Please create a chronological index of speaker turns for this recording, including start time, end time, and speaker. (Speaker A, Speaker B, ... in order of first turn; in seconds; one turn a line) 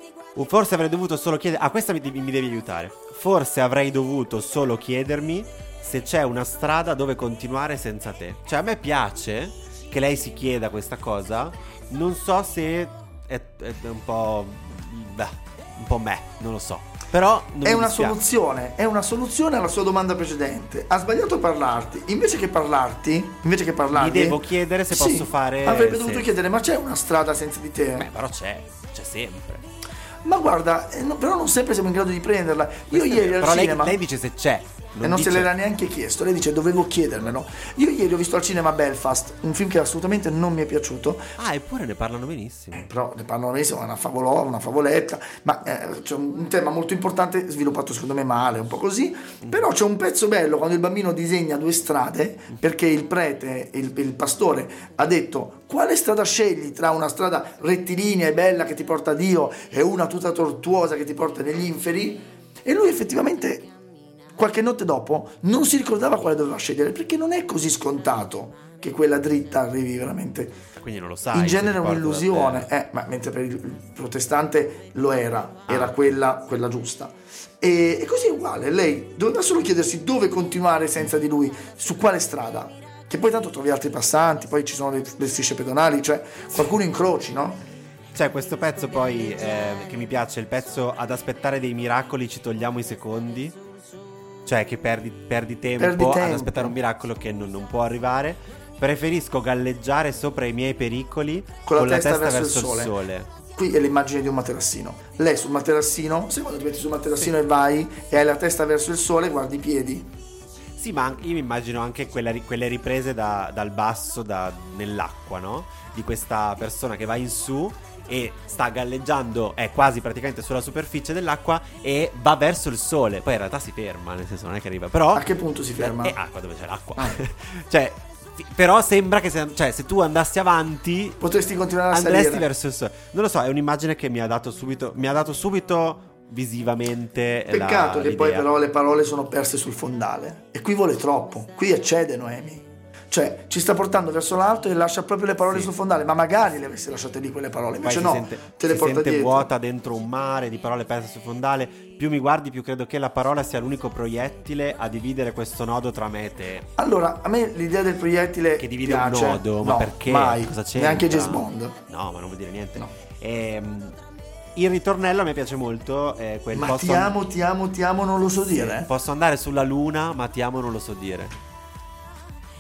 Speaker A: 0.3-18.2
Speaker B: 17.6-24.4
Speaker A: 23.9-26.3
Speaker B: 24.9-28.1
Speaker A: 27.9-29.6
Speaker B: 30.2-34.0
Speaker A: 32.9-35.5
Speaker B: 35.0-41.3
Speaker A: 41.4-42.9
Speaker B: 42.7-63.7
Speaker B: 64.4-70.6
Speaker A: 70.8-72.7
Speaker B: 71.3-87.6
Speaker A: 75.7-76.0
Speaker A: 88.1-93.6
Speaker A: 94.5-103.3
Speaker B: 95.8-96.8
Speaker B: 101.7-102.9
Speaker B: 103.5-110.1
Speaker A: 110.8-131.2
Speaker B: 125.1-126.2
Speaker B: 131.2-132.5
Speaker A: 131.9-138.5
Speaker B: 137.5-149.5
Speaker A: 147.8-156.7
Speaker B: 156.8-161.8
Speaker A: 158.6-164.0
Speaker A: 164.6-167.1
Speaker B: 166.5-168.9
Speaker A: 168.5-171.3